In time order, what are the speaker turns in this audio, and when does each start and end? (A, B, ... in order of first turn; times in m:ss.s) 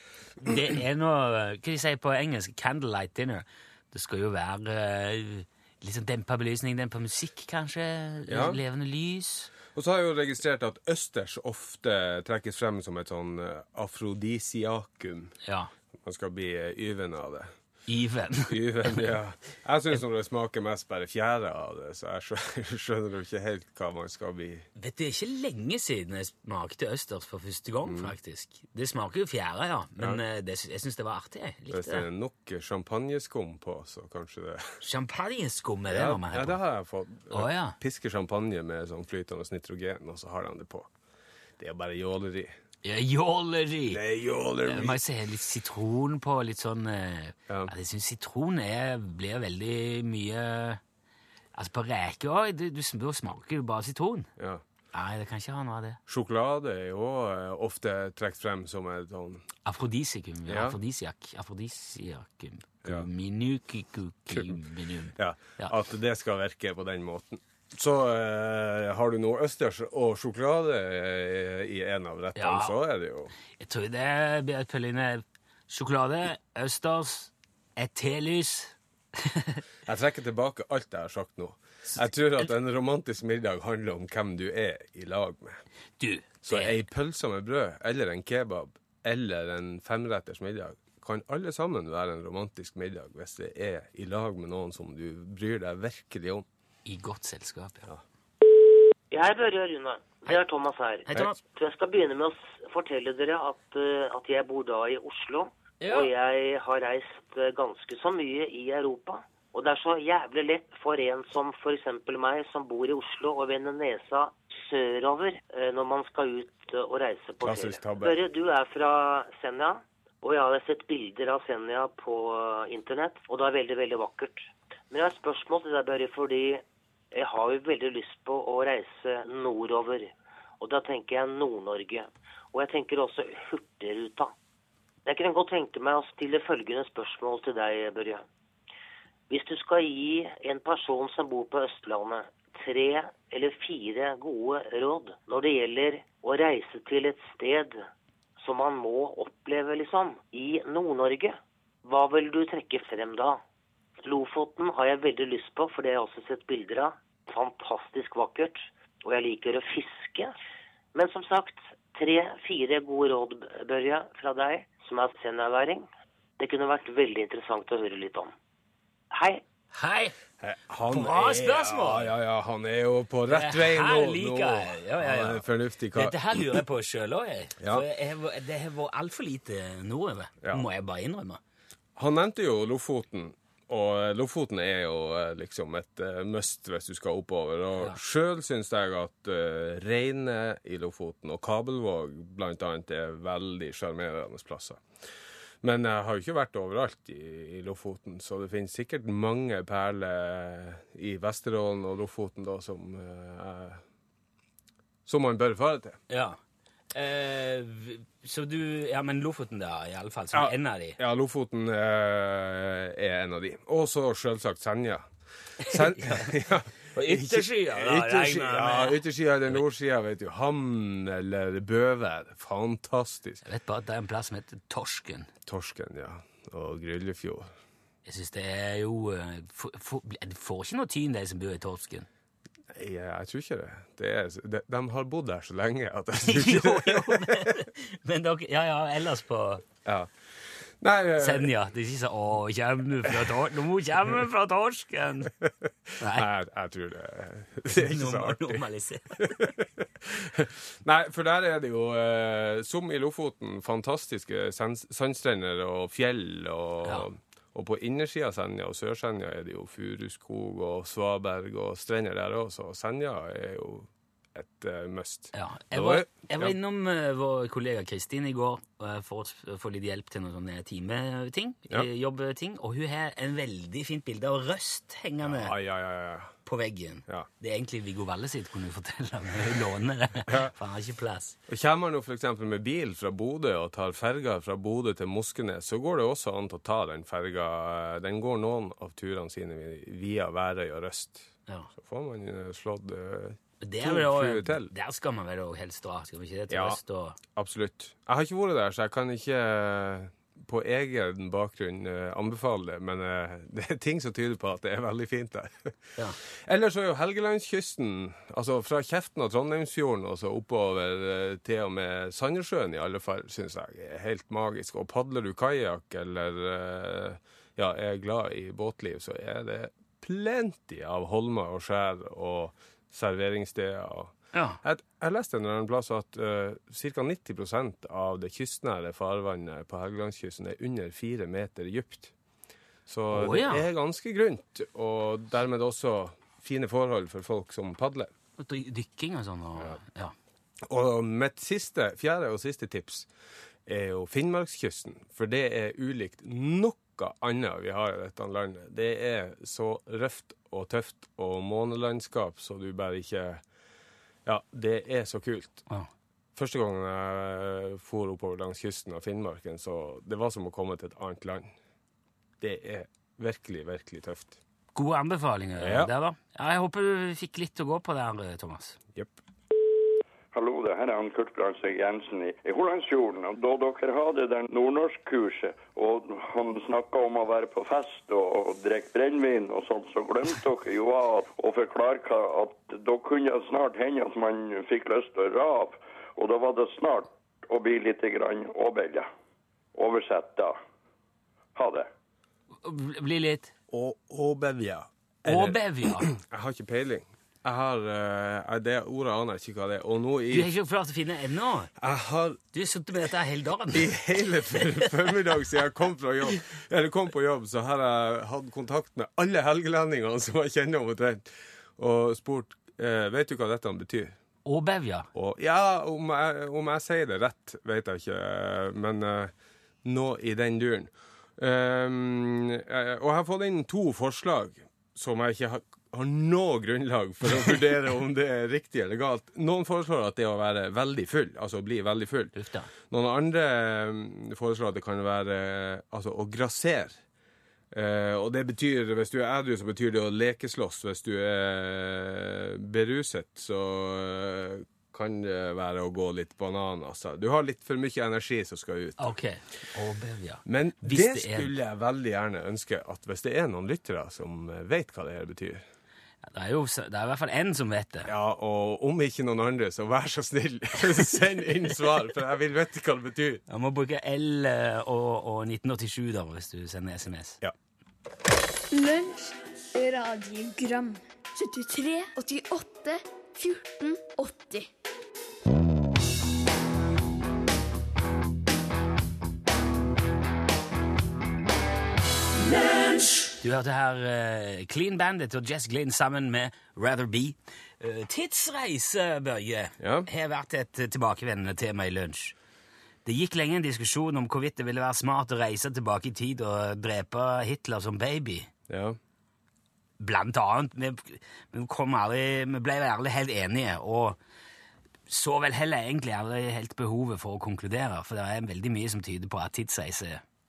0:00.4-0:09.5 A
0:08.3-0:08.6 B
0:09.7-0:15.3 B
0:15.4-0:15.7 A
0:16.0-0:17.5 B
0:17.9-0:19.2 A
0:18.5-0:24.7 B
0:24.8-0:32.1 A
0:27.9-0:28.1 B
0:31.7-0:34.8 B
0:34.8-0:36.6 A
0:35.9-0:40.9 B
0:37.3-0:37.8 A
0:41.6-0:42.5 B
0:42.8-0:44.0 A
0:43.9-0:45.0 B
0:44.6-0:50.8 A
0:51.6-0:54.3 A
0:54.4-0:54.6 B
0:54.9-0:56.0 A
0:56.1-0:59.5 B
0:59.6-1:05.7 A
1:00.5-1:00.8 B
1:04.3-1:04.6 B
1:05.2-1:13.3 B
1:12.4-1:12.8 A
1:13.6-1:19.6 A
1:19.9-1:25.6 B
1:26.0-1:26.8 A
1:26.4-1:36.4 B
1:36.9-1:37.9 A
1:39.1-2:14.3 C
1:41.1-1:41.4 A
1:45.8-1:46.1 A
1:57.4-1:58.2 B
2:15.1-2:18.2 C
2:19.3-2:27.8 C
2:28.4-2:33.4 C
2:34.0-2:40.3 C
2:41.0-2:45.9 C
2:46.4-2:48.3 C
2:49.1-2:49.4 C
2:49.7-2:50.2 A
2:50.4-2:56.6 B
2:50.9-2:52.1 A
2:53.3-3:01.4 A
2:57.6-2:57.8 B
3:02.0-3:14.8 B
3:15.6-3:23.8 B
3:25.1-3:26.0 B
3:26.1-3:26.4 A
3:26.9-3:31.0 A
3:30.3-3:43.4 B
3:35.6-3:36.3 A
3:36.9-3:39.0 A
3:43.4-3:45.3 A
3:45.5-3:47.5 B
3:48.0-3:52.1 A
3:52.7-3:57.6 B
3:56.2-3:59.6 A
3:59.8-4:00.1 B
4:00.8-4:01.5 B
4:01.2-4:05.3 A
4:05.4-4:08.6 B
4:06.0-4:06.3 A
4:07.8-4:09.5 A
4:09.2-4:26.6 B
4:25.3-4:35.6 A
4:35.2-4:36.4 B
4:36.4-4:41.4 A
4:40.3-4:40.5 B
4:41.5-4:54.7 B
4:53.6-4:57.2 A
4:56.5-4:56.8 B
4:57.3-5:32.1 B
5:24.3-5:24.6 A
5:32.9-5:38.1 B
5:33.1-5:33.6 A
5:38.4-5:40.1 A
5:40.6-5:43.1 B
5:43.7-5:53.4 B
5:54.3-5:55.6 B
5:56.4-6:01.5 B
6:02.4-6:04.4 B
6:04.8-6:08.8 A
6:05.6-6:05.9 B
6:10.3-6:29.1 D
6:29.7-6:30.6 D
6:31.6-6:31.9 D
6:32.6-6:33.5 A
6:33.7-6:40.5 B
6:35.2-6:36.1 A
6:40.3-6:41.7 A
6:41.8-6:42.4 B
6:42.5-6:44.0 A
6:43.7-6:54.1 B
6:44.5-6:44.9 A
6:54.4-6:55.1 A
6:55.1-6:59.3 B
6:59.8-7:17.0 B
7:12.4-7:12.7 A
7:17.7-7:29.2 B
7:29.0-7:31.5 A
7:30.5-7:35.6 B
7:36.2-7:38.1 A
7:38.1-7:43.4 B
7:43.5-7:47.4 A
7:48.7-7:54.7 E
8:03.4-8:12.4 A
8:09.8-8:10.1 B
8:13.0-8:18.5 A
8:18.7-8:19.0 B
8:20.0-8:24.2 A
8:25.1-8:30.2 A